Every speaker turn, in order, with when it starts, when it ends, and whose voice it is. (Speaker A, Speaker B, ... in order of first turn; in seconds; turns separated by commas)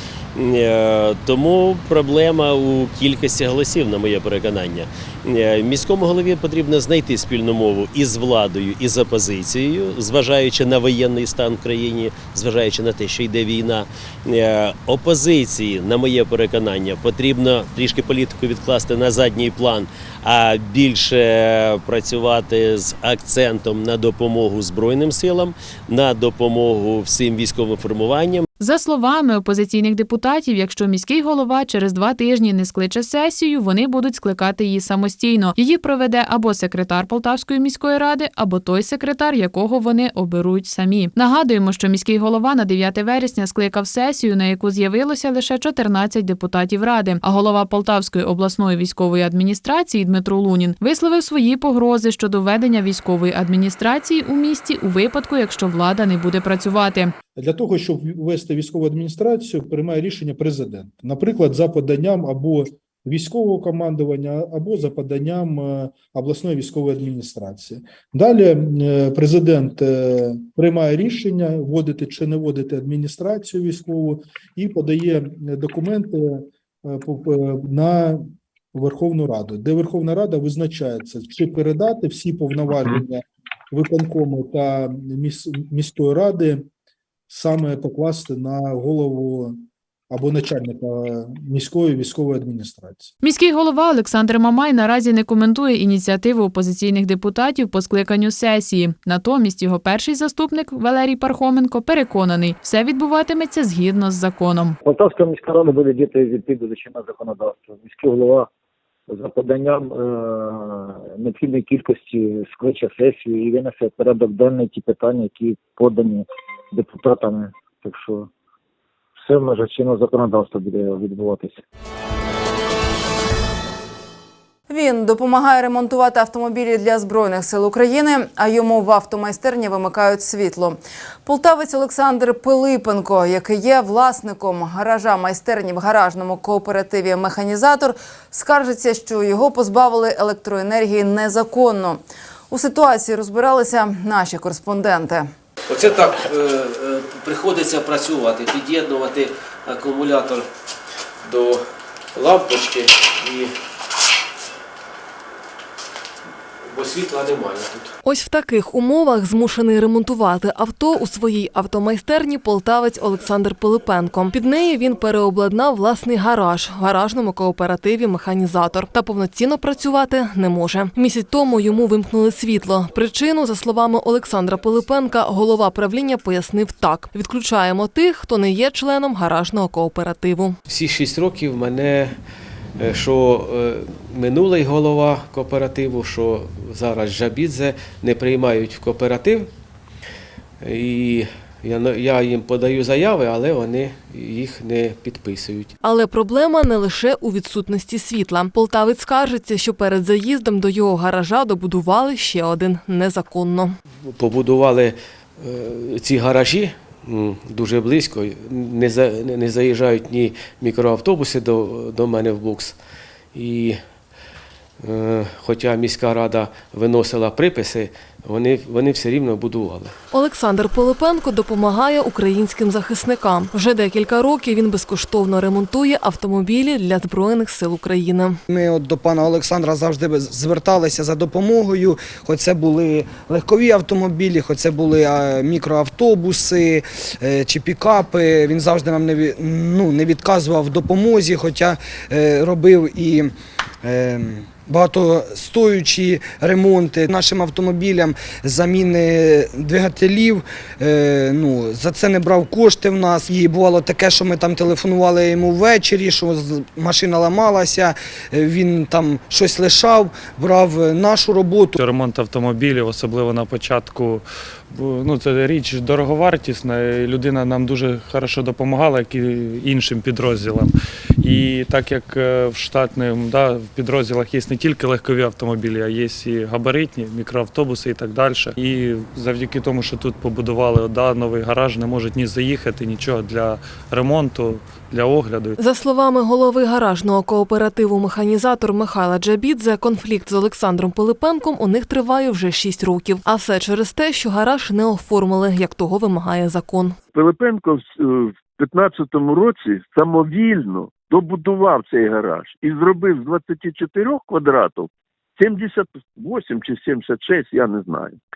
Speaker A: 0.3-28.4, Speaker B: 28.6-57.1, Speaker C: 57.3-86.7, Speaker C: 87.3-93.1, Speaker B: 93.2-104.7, Speaker D: 104.8-108.5, Speaker D: 109.1-118.3, Speaker D: 119.2-121.6, Speaker E: 124.7-145.3, Speaker F: 145.7-150.4, Speaker F: 151.2-151.6, Speaker F: 152.2-153.5, Speaker F: 156.7-157.8, Speaker G: 158.0-180.6, Speaker F: 180.7-182.2, Speaker F: 182.8-189.5, Speaker F: 190.6-195.7, Speaker G: 195.8-203.7, Speaker F: 204.1-212.7, Speaker F: 213.3-213.8, Speaker F: 214.8-219.9, Speaker G: 220.1-228.4, Speaker H: 228.5-261.7, Speaker I: 261.8-285.6, Speaker G: 285.6-297.0, Speaker J: 297.1-308.2